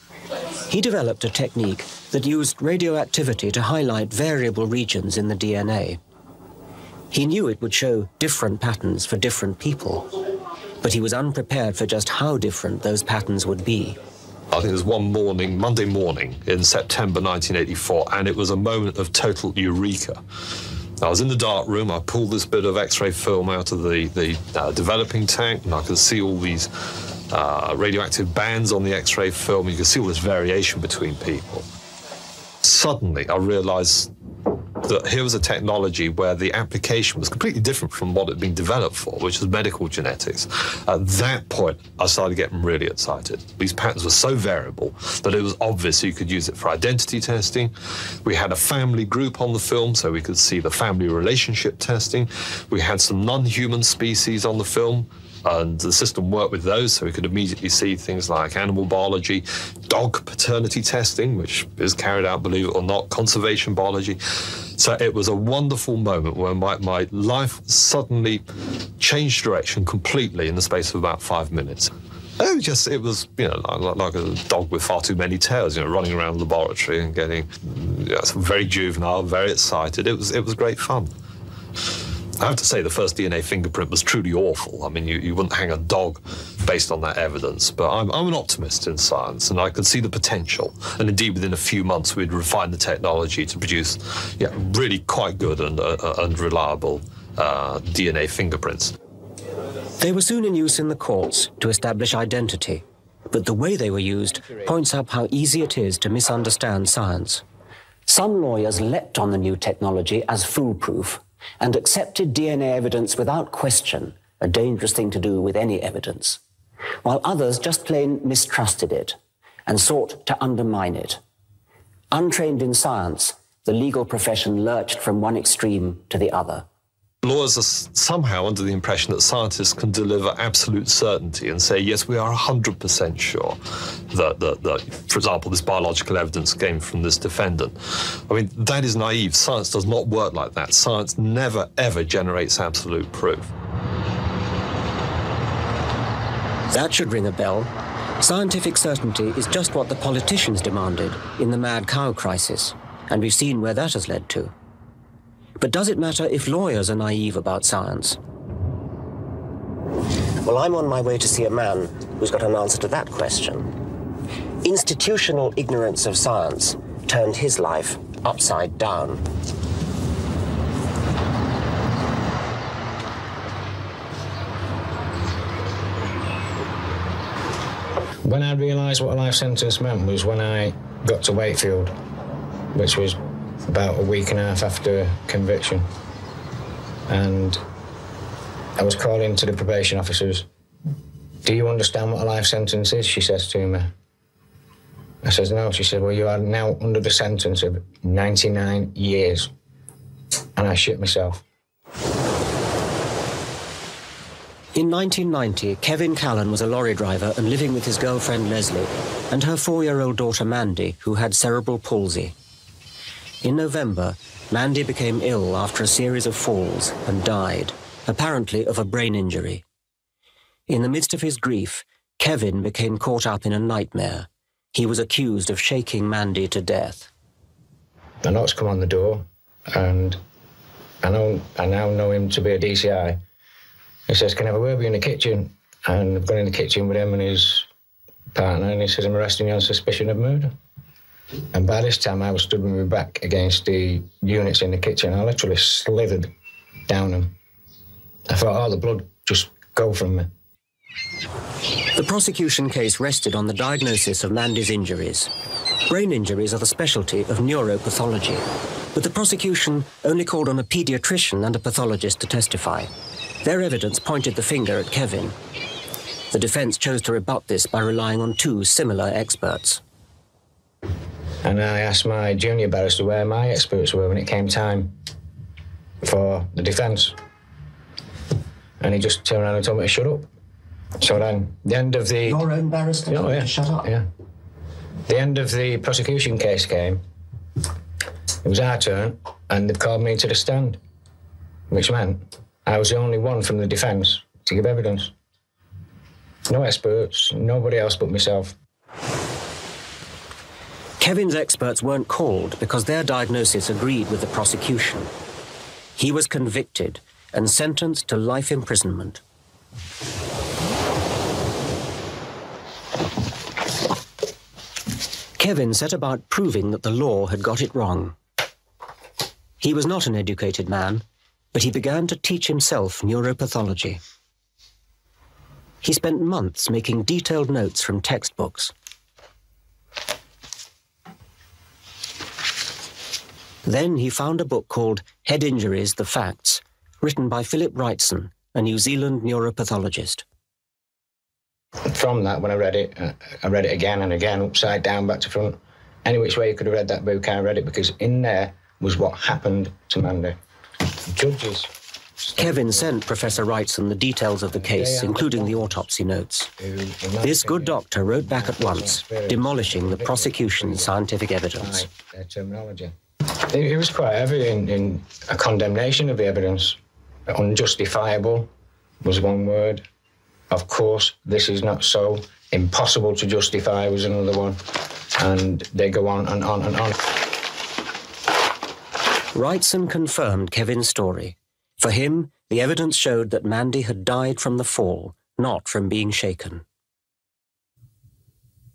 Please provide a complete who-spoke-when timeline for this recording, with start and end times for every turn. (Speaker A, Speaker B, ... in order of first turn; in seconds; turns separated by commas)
Speaker A: 0.7-6.0, Speaker A: 7.1-10.1, Speaker A: 10.8-14.0, Speaker B: 14.5-20.2, Speaker B: 21.0-26.7, Speaker B: 27.3-31.7, Speaker B: 32.6-34.1, Speaker B: 34.8-47.7, Speaker B: 48.2-64.2, Speaker B: 64.8-68.5, Speaker B: 69.0-81.1, Speaker B: 82.4-98.9, Speaker A: 100.0-107.4, Speaker A: 108.1-116.4, Speaker A: 117.0-119.2, Speaker A: 119.7-121.2, Speaker A: 122.1-126.7, Speaker B: 127.2-143.5, Speaker A: 146.7-154.5, Speaker A: 155.6-158.2, Speaker A: 160.4-163.7, Speaker A: 164.6-169.2, Speaker C: 178.2-181.9, Speaker C: 182.7-185.9, Speaker C: 187.1-187.6, Speaker C: 188.8-190.5, Speaker C: 191.4-193.9, Speaker C: 195.2-199.5, Speaker C: 200.6-201.4, Speaker A: 204.8-212.3, Speaker A: 213.4-219.6, Speaker A: 220.7-227.1, Speaker C: 228.2-230.2, Speaker C: 231.0-233.2, Speaker C: 234.1-237.7, Speaker C: 238.3-240.5, Speaker C: 241.5-246.3, Speaker C: 246.9-247.3, Speaker C: 248.3-250.3, Speaker A: 251.9-255.3, Speaker A: 255.9-262.9, Speaker A: 263.4-265.4, Speaker A: 266.3-269.8, Speaker C: 271.4-275.0, Speaker C: 276.0-277.2, Speaker C: 278.8-280.3, Speaker C: 281.0-282.5, Speaker A: 282.2-283.9, Speaker C: 283.1-284.1, Speaker C: 285.1-287.0, Speaker C: 288.4-290.8, Speaker C: 291.7-295.1, Speaker C: 296.5-298.6, Speaker A: 301.0-305.1, Speaker A: 306.0-309.2, Speaker A: 315.4-318.1, Speaker A: 319.6-324.0, Speaker A: 325.8-328.7, Speaker A: 333.6-340.2, Speaker C: 341.9-350.4, Speaker C: 351.1-351.7, Speaker C: 352.2-353.6, Speaker A: 352.4-356.5, Speaker C: 354.5-355.9, Speaker C: 356.6-361.0, Speaker A: 357.2-361.9, Speaker C: 361.5-362.9, Speaker C: 363.5-366.8, Speaker C: 367.3-368.5, Speaker C: 369.0-369.8, Speaker C: 370.5-374.6, Speaker C: 375.2-377.0, Speaker A: 379.3-386.6